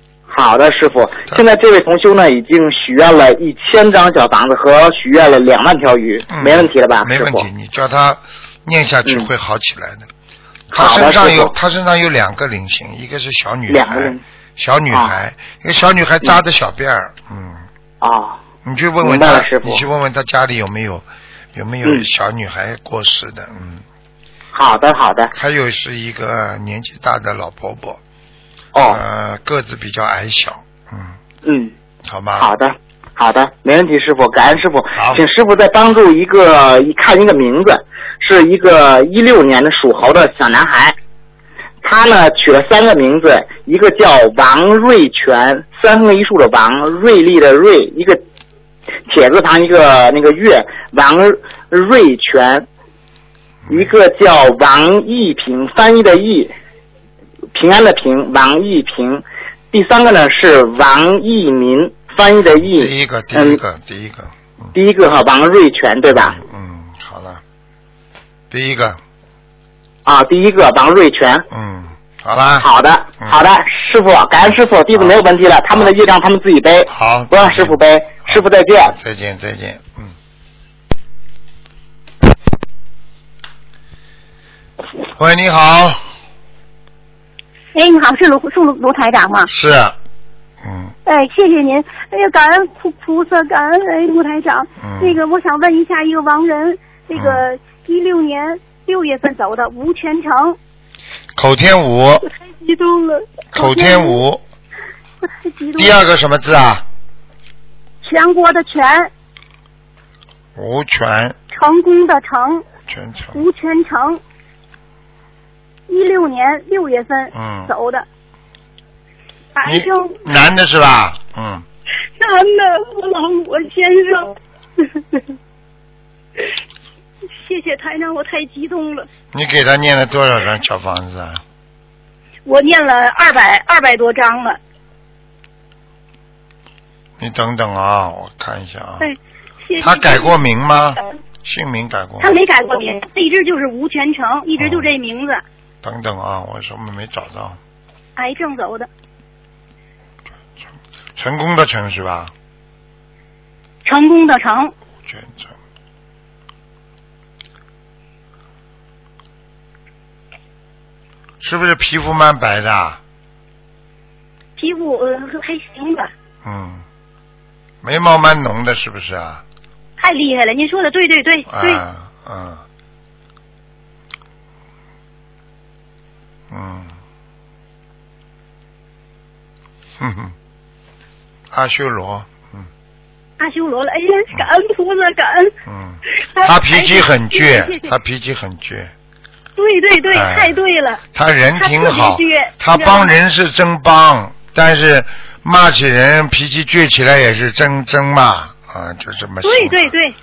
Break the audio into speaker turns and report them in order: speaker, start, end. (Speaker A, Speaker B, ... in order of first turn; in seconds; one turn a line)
Speaker A: 0.3-7.5
Speaker B: 6.3-10.1
Speaker B: 10.7-17.6
Speaker A: 10.8-11.5
Speaker A: 13.7-14.2
Speaker A: 18.0-18.4
Speaker B: 18.6-23.8
Speaker A: 19.0-19.8
Speaker A: 24.5-25.3
Speaker B: 25.3-28.0
Speaker A: 28.7-29.0
Speaker B: 28.9-31.2
Speaker A: 31.4-31.7
Speaker B: 32.0-32.5
Speaker A: 32.4-41.0
Speaker B: 34.9-35.2
Speaker A: 41.8-48.2
Speaker A: 49.1-52.7
Speaker B: 53.6-53.9
Speaker A: 53.7-56.5
Speaker A: 57.5-63.6
Speaker B: 62.7-64.7
Speaker A: 64.7-66.4
Speaker B: 66.1-67.4
Speaker B: 68.5-69.0
Speaker A: 70.0-71.5
Speaker B: 71.5-72.7
Speaker A: 72.6-79.0
Speaker B: 74.9-75.2
Speaker B: 76.9-80.1
Speaker B: 85.1-86.0
Speaker C: 87.7-89.5
Speaker B: 89.5-90.0
Speaker B: 90.6-90.9
Speaker C: 91.0-100.6
Speaker B: 94.8-95.2
Speaker B: 97.1-97.4
Speaker B: 101.3-102.2
Speaker C: 102.2-104.2
Speaker B: 103.5-104.4
Speaker C: 105.2-106.0
Speaker B: 105.8-106.8
Speaker C: 108.0-109.1
Speaker B: 110.5-111.4
Speaker C: 111.5-112.7
Speaker B: 112.9-113.4
Speaker C: 113.3-114.2
Speaker C: 115.9-118.0
Speaker B: 117.3-117.7
Speaker C: 119.5-120.2
Speaker B: 119.6-121.6
Speaker C: 122.2-125.2
Speaker C: 127.3-129.1
Speaker B: 129.3-131.4
Speaker C: 132.4-134.6
Speaker B: 137.2-139.1
Speaker C: 139.0-140.4
Speaker B: 139.8-142.3
Speaker C: 142.2-145.4
Speaker B: 144.6-144.9
Speaker B: 145.8-147.6
Speaker C: 148.2-148.9
Speaker B: 151.2-152.3
Speaker C: 153.8-154.7
Speaker B: 155.1-155.5
Speaker B: 161.4-163.0
Speaker C: 164.6-166.1
Speaker B: 166.4-166.8
Speaker B: 167.8-169.4
Speaker C: 170.0-171.8
Speaker B: 171.5-172.6
Speaker B: 176.5-176.9
Speaker B: 180.0-180.3
Speaker B: 181.5-182.7
Speaker C: 183.4-185.5
Speaker B: 185.7-188.9
Speaker C: 186.2-187.9
Speaker C: 189.6-191.0
Speaker B: 190.1-190.6
Speaker B: 191.1-199.9
Speaker C: 191.6-193.1
Speaker C: 199.4-200.2